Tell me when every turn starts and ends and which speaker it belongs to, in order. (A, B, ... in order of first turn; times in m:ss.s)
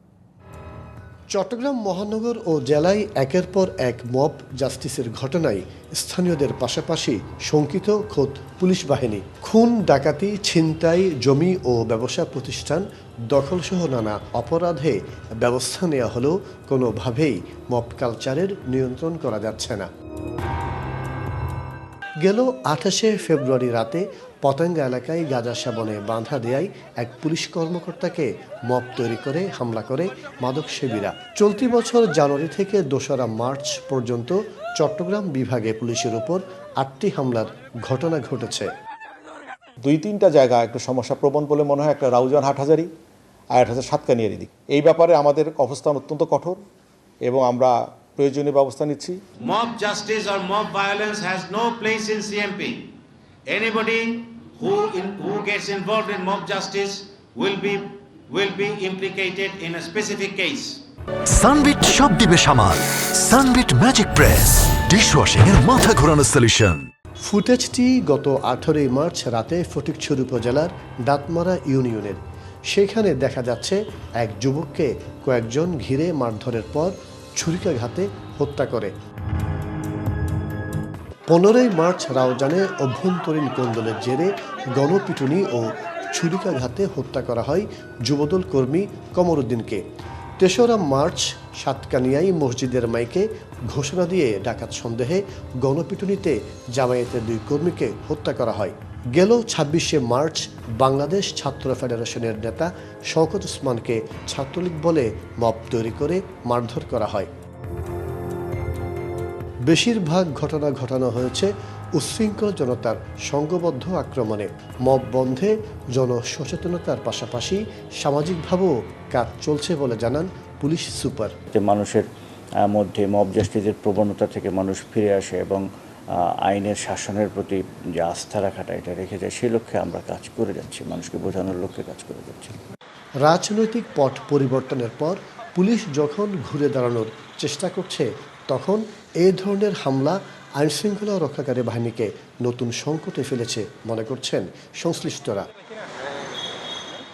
0:01.3-0:19.9 A
0:22.2-0:38.7 A
0:39.8-0:42.9 B
0:43.5-0:46.6 B
0:47.2-0:49.2 B
0:49.4-0:52.9 C
0:53.5-1:00.8 C
1:01.3-1:06.9 D
1:07.2-1:18.9 A
1:21.3-1:29.8 A
1:30.4-1:47.3 A
1:49.7-2:01.3 A
2:01.5-2:02.1 E
2:02.7-2:05.6 E
2:06.5-2:12.6 E
2:13.2-2:25.5 A